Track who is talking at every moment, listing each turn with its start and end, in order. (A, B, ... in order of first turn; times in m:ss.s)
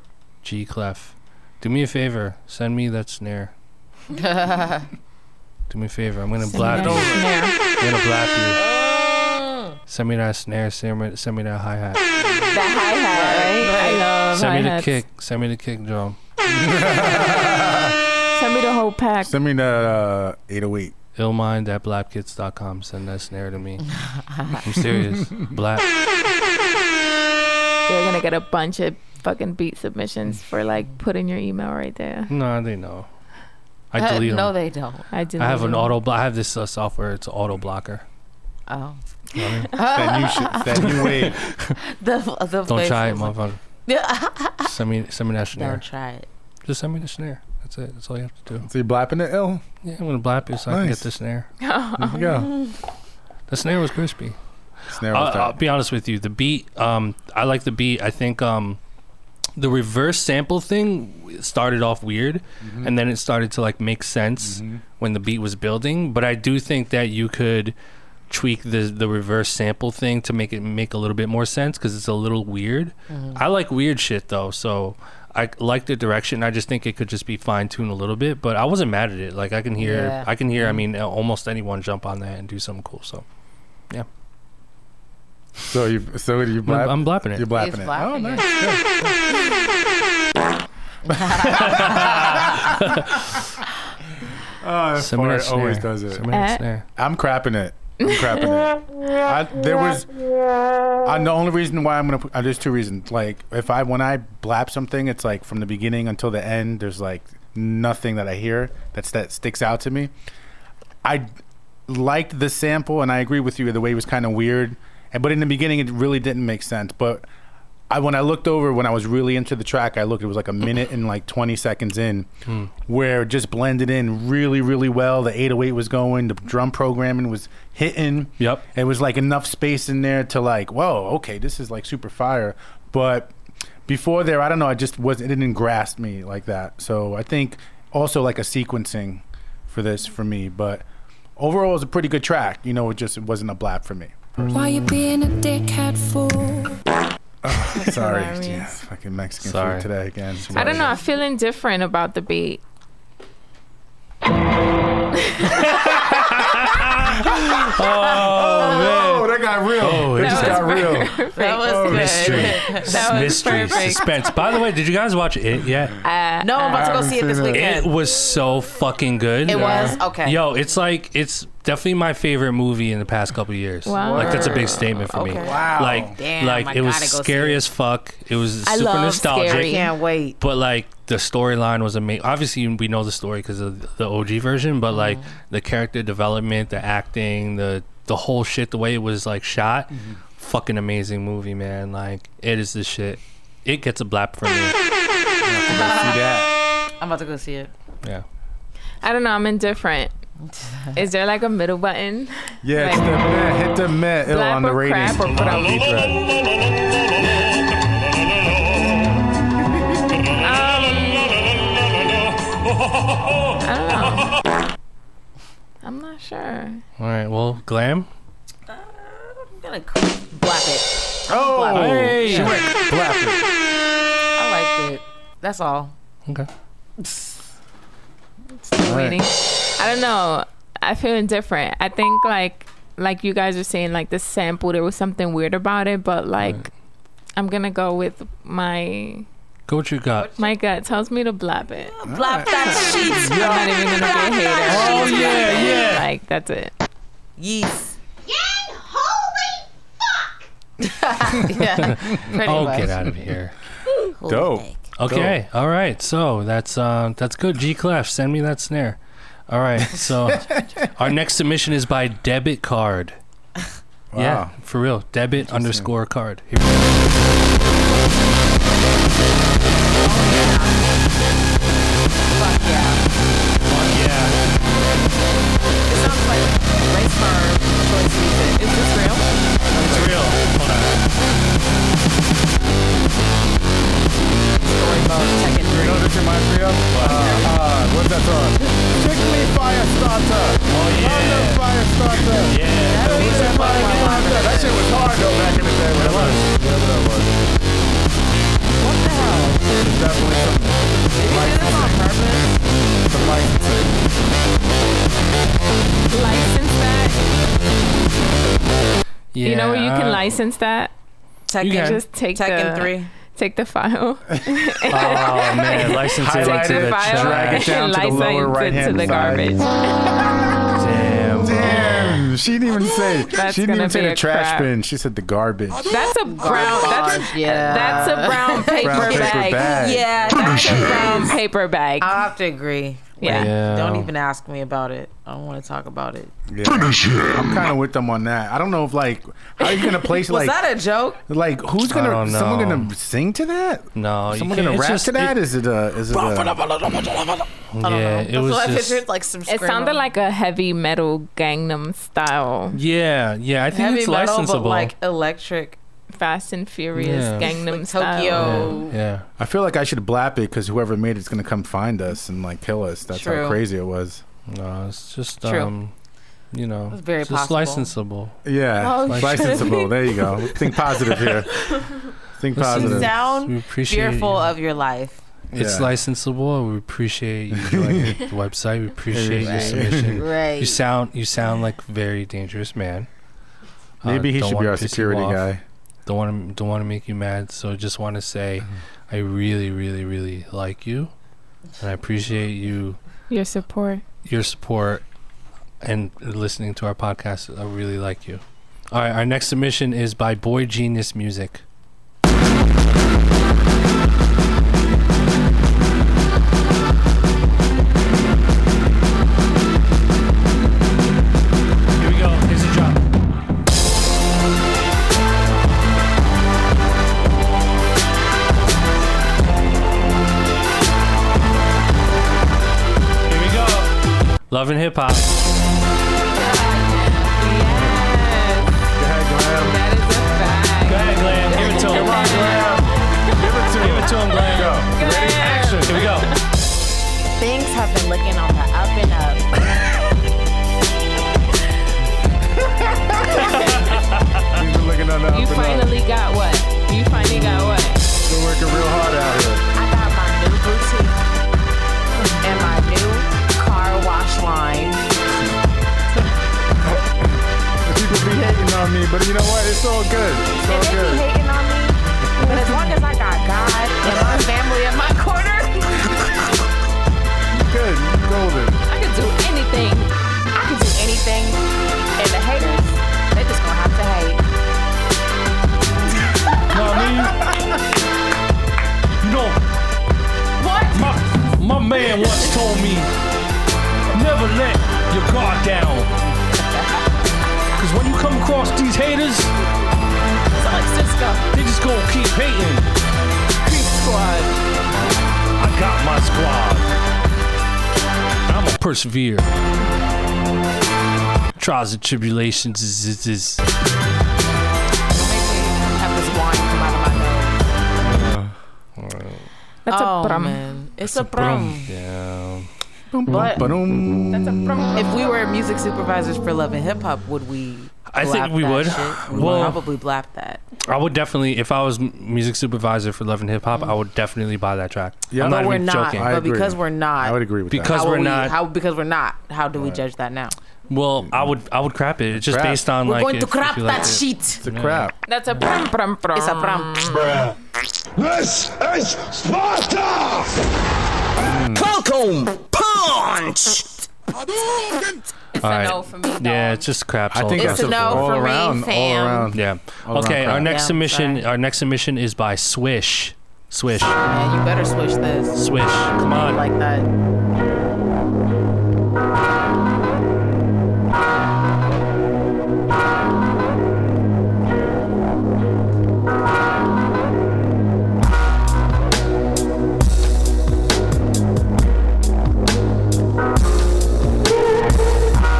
0:00.4-0:03.5 A
0:04.1-0:04.9 B
0:05.7-0:07.2 A
0:06.5-0:07.6 C
0:06.6-0:07.2 B
0:07.8-0:08.6 A
0:08.6-0:09.8 B
0:09.9-0:12.0 A
0:12.5-0:15.0 C
0:13.1-0:14.1 B
0:14.3-0:16.2 A
0:16.5-0:18.0 D
0:18.3-0:19.4 C
0:19.2-0:21.0 D
0:21.2-0:23.9 A
0:23.9-0:24.6 B
0:24.6-0:25.9 A
0:27.9-0:32.3 C
0:32.3-0:33.1 A
0:33.9-0:34.5 A
0:34.0-0:35.1 B
0:35.1-0:36.0 C
0:35.4-0:38.0 A
0:38.7-0:39.0 B
0:39.4-0:39.8 A
0:39.7-0:41.1 B
0:39.8-0:41.4 D
0:40.8-0:41.8 A
0:41.8-0:43.3 B
0:42.7-0:43.6 A
0:43.8-0:44.7 B
0:44.6-0:45.8 A
0:45.6-0:46.3 B
0:46.7-0:48.7 A
0:48.6-0:49.6 D
0:49.8-0:51.5 A
0:50.7-0:51.1 D
0:51.6-0:52.4 C
0:52.0-0:52.6 D
0:53.5-0:54.4 A
0:54.9-0:55.6 D
0:55.0-0:58.8 A
0:59.6-1:07.8 A
1:02.6-1:03.0 D
1:04.4-1:04.8 D
1:08.3-1:23.2 A
1:13.1-1:13.4 B
1:19.8-1:20.8 B
1:25.6-1:29.2 D
1:26.6-1:27.5 A
1:27.5-1:28.5 B
1:31.1-1:32.6 B
1:31.1-1:32.7 D
1:31.5-1:33.5 A
1:34.6-1:36.3 D
1:35.0-1:36.8 A
1:36.3-1:36.6 C
1:37.0-1:40.1 D
1:38.0-1:38.5 C
1:41.0-1:50.1 D
1:51.9-1:57.3 D
1:57.9-2:02.3 D
2:02.9-2:13.3 D
2:08.4-2:08.6 A
2:13.9-2:20.8 D
2:21.4-2:24.2 D
2:24.5-2:26.8 E
2:27.4-2:30.9 D
2:27.7-2:28.8 C
2:29.4-2:31.0 A
2:30.5-2:32.6 C
2:35.3-2:35.7 C
2:35.5-2:41.0 A
2:37.4-2:42.6 D
2:40.2-2:42.0 C
2:41.4-2:44.1 B
2:41.9-2:46.0 A
2:42.7-2:44.0 C
2:46.0-2:47.0 C
2:46.4-2:47.9 B
2:46.7-2:47.8 D
2:47.5-2:59.8 A
2:49.5-2:50.4 B
2:49.5-2:50.0 C
2:53.9-2:55.1 C
2:54.0-2:57.6 B
2:55.4-2:56.2 D
2:58.6-2:59.9 C
2:59.4-3:00.4 B
3:00.4-3:14.8 A
3:04.9-3:05.3 B
3:15.4-3:16.5 D
3:15.7-3:16.3 B
3:17.0-3:17.7 B
3:19.0-3:20.1 C
3:20.4-3:21.0 B
3:21.0-3:23.1 C
3:22.6-3:26.2 D
3:24.2-3:26.0 C
3:30.4-3:31.5 C
3:33.6-3:34.4 C
3:35.8-3:36.8 C
3:37.0-3:38.1 A
3:38.7-3:42.6 B
3:41.3-3:43.4 D
3:41.7-3:42.6 A
3:44.4-3:45.9 B
3:47.0-3:47.4 B
3:48.7-3:56.7 C
3:48.7-3:49.2 D
3:57.4-3:59.3 C
3:59.7-4:00.3 A
4:00.2-4:00.6 B
4:00.4-4:02.0 C
4:01.8-4:05.9 B
4:02.0-4:03.4 D
4:02.6-4:06.7 C
4:04.7-4:06.1 A
4:07.4-4:09.6 B
4:10.8-4:13.0 B
4:11.8-4:13.6 A
4:14.1-4:14.9 B
4:14.3-4:15.4 D
4:15.0-4:23.2 A
4:24.1-4:24.5 D
4:24.2-4:27.3 A
4:25.4-4:25.9 D
4:29.9-4:30.9 B
4:32.3-4:33.0 B
4:33.6-4:34.4 A
4:35.9-4:39.3 B
4:39.7-4:40.2 D
4:39.8-4:41.0 A
4:44.6-4:46.1 B
4:45.7-4:57.4 D
4:46.9-4:47.5 A
4:47.0-4:47.5 B
4:50.7-4:54.3 A
4:52.8-4:54.8 B
4:55.9-4:56.5 A
4:58.8-4:59.8 B
4:59.7-5:02.0 D
5:01.2-5:02.6 B
5:03.1-5:04.1 D
5:06.1-5:07.4 C
5:09.3-5:10.3 A
5:09.4-5:10.9 C
5:11.5-5:13.1 B
5:11.6-5:12.0 A
5:11.8-5:20.1 C
5:14.3-5:15.5 D
5:14.9-5:17.8 A
5:16.0-5:19.6 D
5:20.8-5:22.3 A
5:21.4-5:26.0 D
5:23.3-5:24.7 C
5:25.8-5:32.2 C
5:26.3-5:31.4 B
5:27.8-5:28.2 D
5:28.8-5:30.1 D
5:32.0-5:36.3 B
5:33.2-5:33.5 C
5:33.2-5:34.1 A
5:36.5-5:40.6 D
5:39.6-5:41.2 B
5:41.3-5:46.6 D
5:41.9-5:42.9 A
5:44.0-5:45.4 A
5:46.3-5:47.2 F
5:47.7-5:49.0 A
5:47.8-5:50.0 B
5:49.5-5:52.8 C
5:52.7-5:54.9 A
5:53.7-5:55.8 B
5:56.1-5:58.8 C
5:57.0-5:57.5 A
5:57.4-5:59.0 B
5:58.3-5:59.3 A
5:59.4-6:04.2 D
6:03.1-6:03.6 B
6:04.5-6:05.9 A
6:05.4-6:05.7 B
6:06.5-6:08.4 A
6:06.9-6:07.9 B
6:08.4-6:11.5 D
6:08.8-6:10.7 B
6:09.0-6:09.8 A
6:12.4-6:13.1 D
6:12.5-6:14.5 A
6:12.7-6:15.2 B
6:15.5-6:15.9 D
6:15.5-6:23.1 A
6:17.5-6:18.2 D
6:19.1-6:20.2 D
6:19.4-6:20.8 B
6:24.0-6:25.4 A
6:24.0-6:25.6 D
6:26.1-6:31.1 A
6:31.8-6:33.0 A
6:33.3-6:34.0 C
6:34.3-6:35.0 A
6:35.8-6:41.6 A
6:52.0-6:53.0 A
7:03.3-7:04.0 A
7:04.5-7:05.3 A
7:06.4-7:08.8 C
7:07.7-7:08.0 D
7:09.0-7:09.8 D
7:09.6-7:13.8 C
7:10.9-7:12.7 A
7:11.6-7:16.2 D
7:13.8-7:14.9 A
7:14.4-7:16.4 C
7:15.9-7:16.3 A
7:17.4-7:19.4 B
7:22.6-7:23.8 D
7:23.5-7:24.5 A
7:24.5-7:25.9 D
7:25.3-7:28.0 C
7:28.2-7:29.6 D
7:29.8-7:31.2 B
7:32.4-7:35.0 B
7:36.8-7:41.3 D
7:40.6-7:46.2 B
7:42.2-7:42.9 D
7:44.1-7:44.4 D
7:47.5-7:48.8 D
7:48.9-7:50.1 C
7:50.5-7:51.6 B
7:52.2-7:54.4 B
7:56.7-7:57.5 A
7:59.2-7:59.6 A
8:00.6-8:01.0 B
8:00.9-8:03.1 A
8:04.1-8:06.1 A
8:06.6-8:07.0 B
8:07.8-8:09.5 A
8:10.6-8:11.5 B
8:11.5-8:12.9 A
8:13.6-8:14.5 B
8:15.6-8:16.9 A
8:18.5-8:19.5 A
8:21.6-8:23.6 A
8:25.1-8:27.7 B
8:28.0-8:28.6 D
8:29.0-8:29.5 A
8:29.9-8:30.6 C
8:29.9-8:31.9 B
8:31.0-8:32.7 A
8:33.1-8:34.8 D
8:33.3-8:33.5 A
8:33.3-8:33.7 B
8:34.3-8:35.4 C
8:34.9-8:40.6 B
8:38.1-8:39.8 A
8:40.9-8:46.4 A
8:45.3-8:48.0 D
8:45.4-8:50.6 B
8:47.7-8:48.6 A
8:49.8-8:50.0 D
8:50.9-8:55.1 A
8:51.2-8:51.5 D
8:52.3-8:52.8 D
8:53.0-8:54.6 B
8:54.6-8:55.1 D
8:55.3-8:57.4 C
8:56.4-8:57.2 B
8:57.2-8:57.6 F
8:58.2-9:00.5 F
9:01.4-9:01.9 D
9:01.7-9:05.2 F
9:05.6-9:06.9 C
9:05.6-9:05.9 A
9:06.4-9:08.3 A
9:07.3-9:10.7 D
9:07.6-9:09.5 B
9:09.5-9:14.2 A
9:10.6-9:11.5 B
9:14.2-9:15.6 B
9:15.6-9:16.6 A
9:16.2-9:17.1 B